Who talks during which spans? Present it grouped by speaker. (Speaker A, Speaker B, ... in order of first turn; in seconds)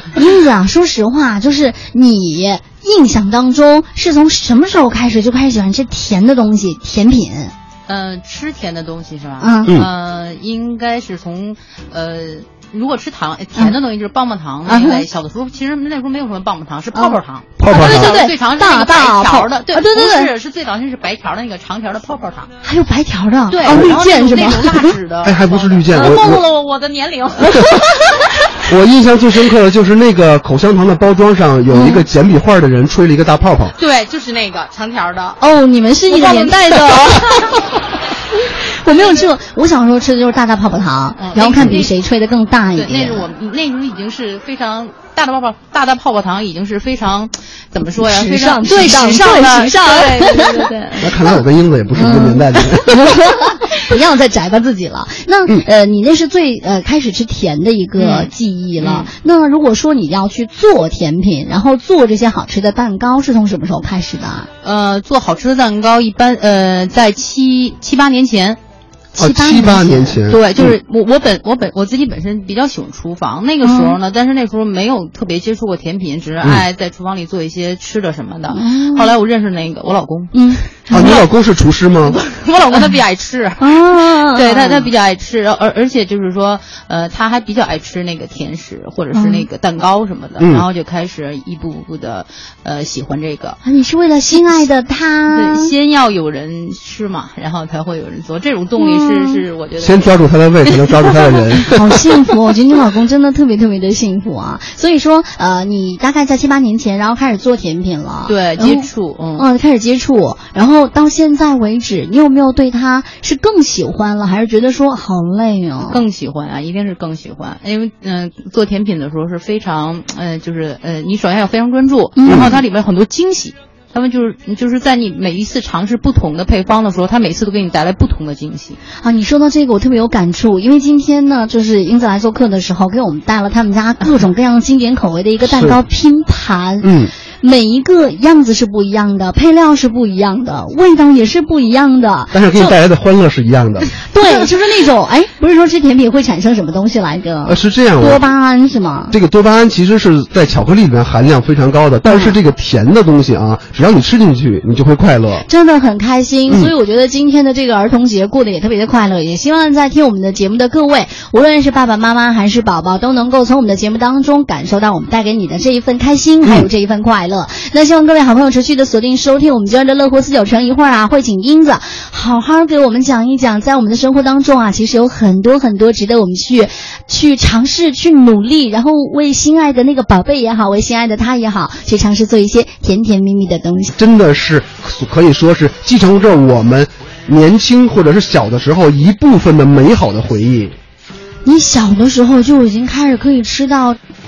Speaker A: 0.1-7.5, 9.4-9.8, 14.7-15.0, 16.9-20.3, 22.6-25.0, 27.4-28.3, 31.7-32.0, 35.4-37.7, 38.3-43.3, 48.0-50.7, 52.0-64.5, 69.2-70.2, 73.6-74.0, 78.5-79.1, 80.3-81.2, 83.6-84.9, 89.1-89.5, 93.6-95.7, 98.8-99.4, 101.7-116.0, 122.2-122.6, 129.0-142.8, 144.0-149.2, 152.1-152.4, 155.5-183.9, 191.4-194.0
Speaker B: 7.9-22.5, 23.5-27.7, 33.8-35.4, 36.1-37.6, 38.9-39.3, 41.2-41.9, 42.7-51.2, 58.0-59.1, 64.6-68.6, 70.3-81.3, 82.0-93.6, 94.3-94.6, 95.3-101.8, 108.3-109.5, 115.9-128.8
Speaker C: 17.6-18.1, 25.2-26.4, 28.7-33.8, 51.0-53.2, 69.2-70.8, 76.4-76.7, 80.9-82.2, 90.4-90.7, 99.8-101.8, 122.3-122.5, 135.5-135.8, 136.8-137.1, 142.3-143.9, 147.4-148.3, 149.1-155.5, 184.0-190.8